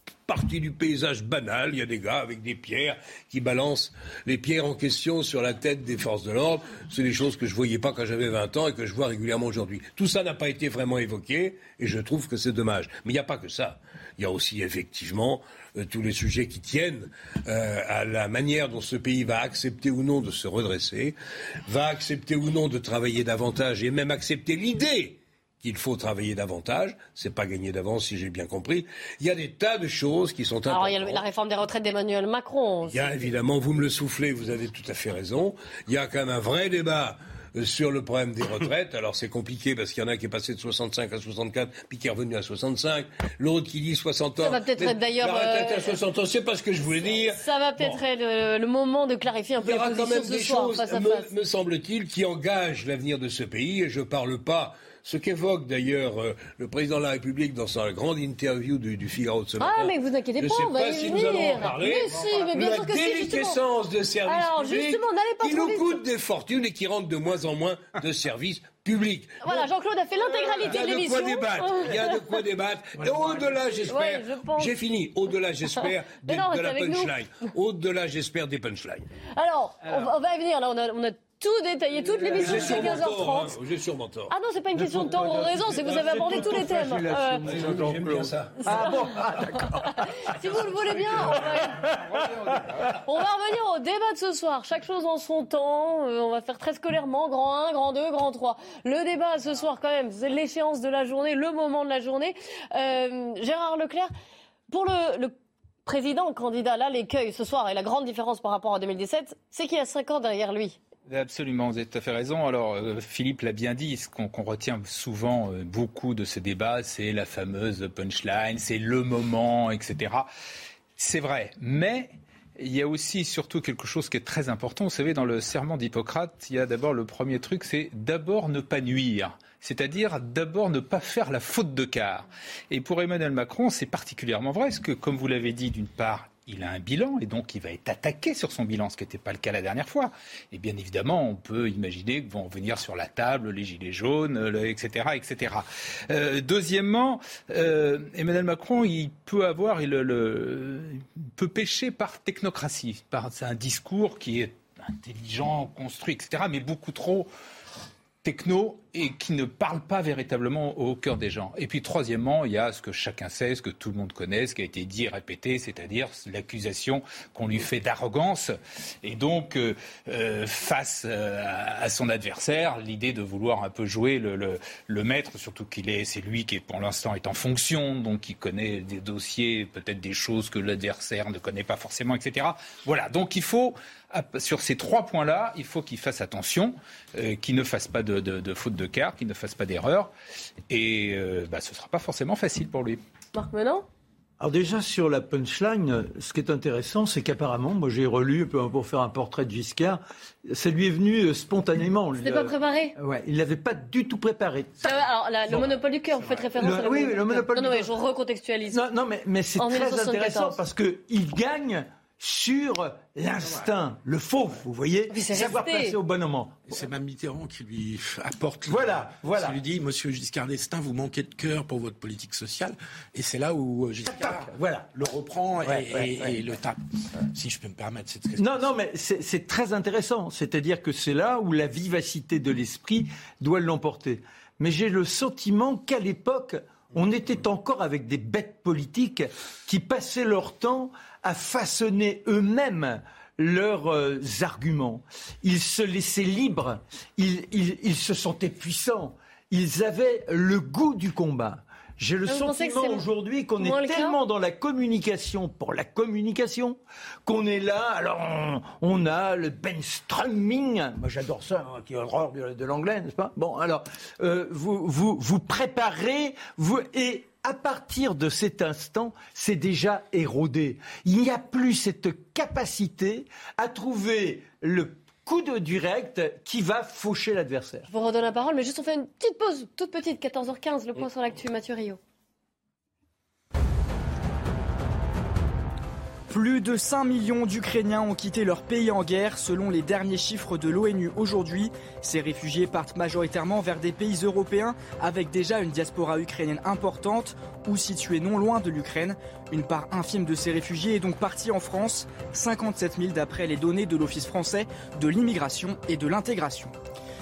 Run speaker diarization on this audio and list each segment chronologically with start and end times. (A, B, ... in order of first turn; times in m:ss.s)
0:00.3-0:31.2 A
0:30.7-0:33.3 B
0:32.8-0:48.0 A
0:44.4-0:46.0 B
0:47.1-0:51.3 B
0:49.6-1:09.7 A
0:59.6-1:03.6 B
1:04.3-1:06.0 B
1:09.4-1:12.2 B
1:10.3-1:19.1 A
1:13.8-1:14.7 B
1:16.2-1:17.1 B
1:19.4-1:23.6 B
1:22.3-1:25.3 A
1:22.4-1:22.7 C
1:24.3-1:27.5 B
1:24.8-1:29.7 C
1:25.8-1:26.6 A
1:27.4-1:28.6 A
1:28.7-1:29.1 B
1:29.8-1:31.8 B
1:30.6-1:32.0 C
1:30.9-1:32.9 D
1:33.0-1:44.1 B
1:44.7-1:45.3 B
1:45.9-1:50.8 B
1:51.1-2:00.3 D
2:01.0-2:37.3 D
2:38.2-3:10.1 D
3:10.7-3:13.0 D
3:13.4-3:13.9 B
3:14.4-3:25.7 C
3:22.2-3:22.9 B
3:24.8-3:28.8 B
3:26.6-3:27.9 C
3:28.7-3:36.8 C
3:29.6-3:30.6 B
3:35.1-3:36.0 B
3:36.7-3:46.8 E
3:38.7-3:39.7 C
3:44.0-3:45.1 C
3:45.6-3:46.4 C
3:47.3-3:48.7 E
3:48.4-4:37.9 C
4:12.3-4:13.1 B
4:13.6-4:14.2 B
4:37.9-4:42.0 B
4:46.3-5:06.7 F